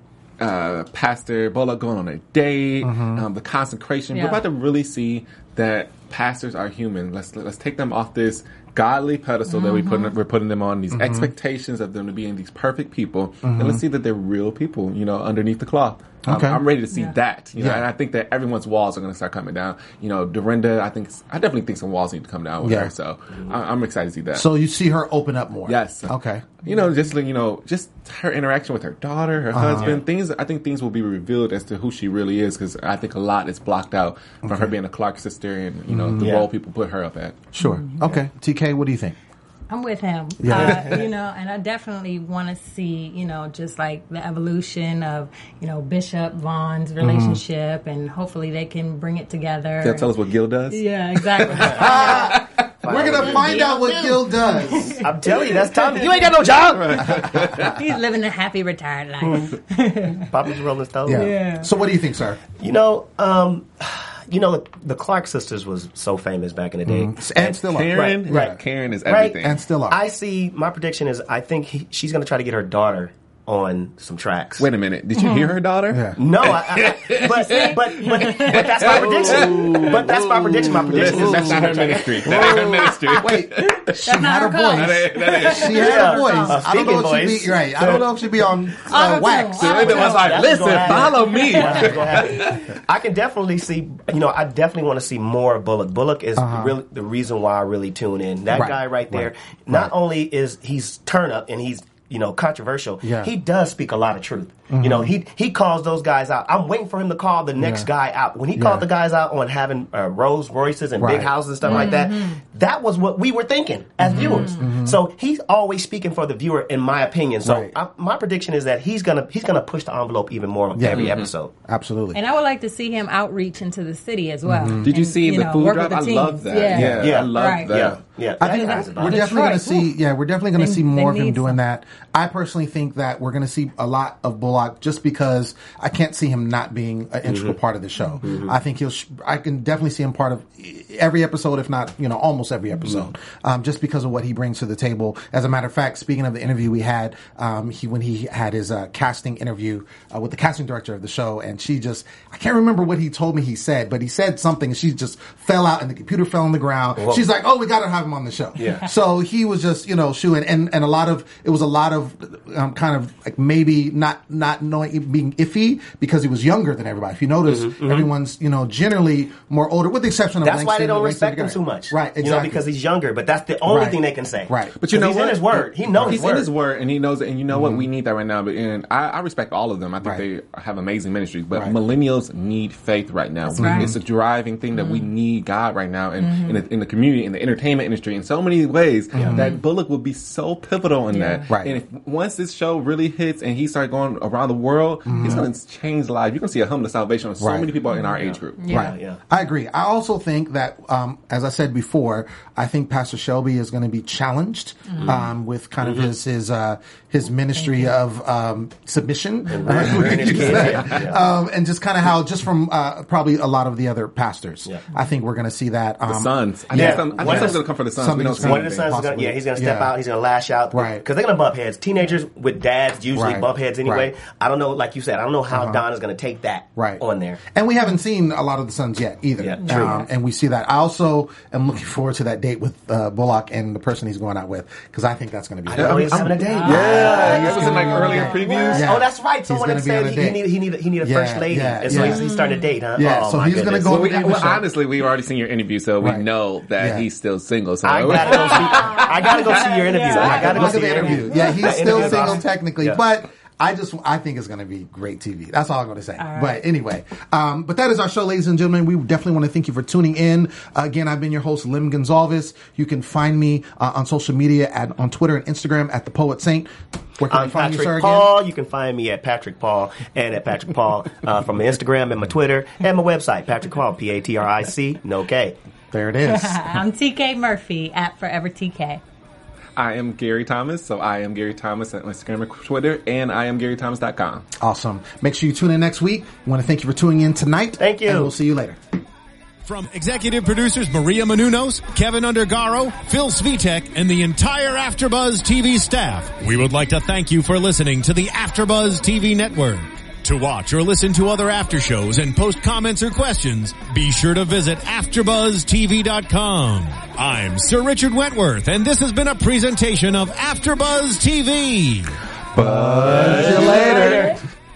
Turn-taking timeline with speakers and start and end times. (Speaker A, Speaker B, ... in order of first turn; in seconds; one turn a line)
Speaker A: 0.4-24.5
Speaker B: 2.8-3.2
Speaker C: 4.1-4.4
Speaker C: 9.5-10.1
Speaker B: 10.9-11.3
Speaker B: 13.4-13.8
Speaker B: 16.2-16.6
Speaker C: 16.9-17.2
Speaker B: 17.6-17.9
Speaker B: 22.6-22.9
Speaker B: 24.3-26.5
Speaker A: 25.7-37.5
Speaker B: 29.5-29.9
Speaker D: 29.7-30.0
Speaker B: 34.5-34.7
Speaker B: 35.9-36.3
Speaker D: 36.2-36.5
Speaker B: 37.5-39.1
Speaker C: 37.6-38.2
Speaker C: 39.7-50.1
Speaker B: 40.4-41.0
Speaker B: 47.0-47.4
Speaker A: 49.8-53.3
Speaker C: 50.7-52.2
Speaker B: 51.6-55.0
Speaker D: 51.8-54.2
Speaker C: 53.5-55.1
Speaker D: 55.0-57.5
Speaker C: 55.6-56.3
Speaker A: 56.7-57.8
Speaker B: 57.0-57.7
Speaker C: 57.5-60.3
Speaker D: 59.2-59.6
Speaker D: 60.1-61.3
Speaker B: 61.0-62.4
Speaker C: 61.1-61.7
Speaker D: 62.6-68.5
Speaker B: 66.9-68.6
Speaker A: 67.7-69.6
Speaker D: 69.1-74.7
Speaker B: 69.4-70.0
Speaker A: 74.6-84.0
Speaker C: 75.2-75.5
Speaker B: 75.9-76.2
Speaker D: 76.2-83.0
Speaker C: 77.3-79.0
Speaker B: 78.9-79.8
Speaker B: 80.6-89.9
Speaker C: 84.0-86.6
Speaker A: 84.7-86.0
Speaker D: 85.8-88.0
Speaker A: 87.8-88.1
Speaker C: 88.8-92.5
Speaker A: 89.6-92.7
Speaker D: 89.8-121.5
Speaker B: 96.4-96.8
Speaker B: 98.5-99.9
Speaker B: 103.0-103.3
Speaker B: 104.7-105.1
Speaker B: 107.6-107.9
Speaker B: 108.5-108.9
Speaker B: 111.0-111.3
Speaker C: 111.7-112.4
Speaker B: 114.0-115.0
Speaker C: 114.2-114.6
Speaker B: 117.4-117.7
Speaker B: 120.8-122.2
Speaker A: 120.9-121.3
Speaker C: 122.1-127.7
Speaker B: 124.5-124.9
Speaker A: 124.8-128.0
Speaker B: 126.7-127.2
Speaker D: 127.0-129.3
Speaker B: 128.4-172.7
Speaker C: 128.7-129.9
Speaker C: 130.6-131.6
Speaker D: 137.3-137.5
Speaker D: 138.2-138.6
Speaker D: 157.0-157.2
Speaker D: 158.6-158.8
Speaker D: 167.5-168.1
Speaker D: 170.4-176.5
Speaker B: 173.7-174.8
Speaker A: 174.8-198.7
Speaker B: 175.9-176.2
Speaker B: 177.5-177.9
Speaker C: 183.4-183.9
Speaker B: 183.6-184.0
Speaker C: 184.7-185.1
Speaker C: 186.2-186.6
Speaker B: 189.1-189.5
Speaker D: 189.2-189.4
Speaker C: 191.1-191.5
Speaker B: 191.5-191.8
Speaker B: 195.1-195.5
Speaker B: 197.4-197.7
Speaker D: 198.2-199.2
Speaker C: 198.6-198.9
Speaker B: 198.7-219.9
Speaker C: 204.9-205.1
Speaker D: 205.0-205.3
Speaker D: 205.8-206.1
Speaker C: 207.6-208.0
Speaker D: 209.5-211.2
Speaker A: 209.8-211.1
Speaker A: 216.1-218.9
Speaker D: 216.7-217.6
Speaker D: 218.4-227.4
Speaker B: 220.7-221.0
Speaker B: 223.1-224.1
Speaker B: 225.5-225.8
Speaker B: 226.8-242.3
Speaker D: 229.4-229.9
Speaker C: 229.6-230.1
Speaker D: 235.7-244.5
Speaker A: 235.7-239.0
Speaker C: 236.5-238.8
Speaker C: 241.9-242.7
Speaker B: 242.9-244.6
Speaker A: 243.8-249.6
Speaker B: 246.0-246.3
Speaker B: 246.8-247.1
Speaker D: 247.8-253.0
Speaker C: 248.2-252.4
Speaker B: 250.1-268.3
Speaker C: 256.2-256.6
Speaker D: 267.3-275.6
Speaker B: 275.9-276.8
Speaker C: 276.2-279.0
Speaker A: 279.8-284.4
Speaker B: 284.6-288.8
Speaker D: 287.8-288.3
Speaker E: 289.6-312.1
Speaker A: 312.6-314.3
Speaker B: 312.6-314.4
Speaker C: 313.2-314.4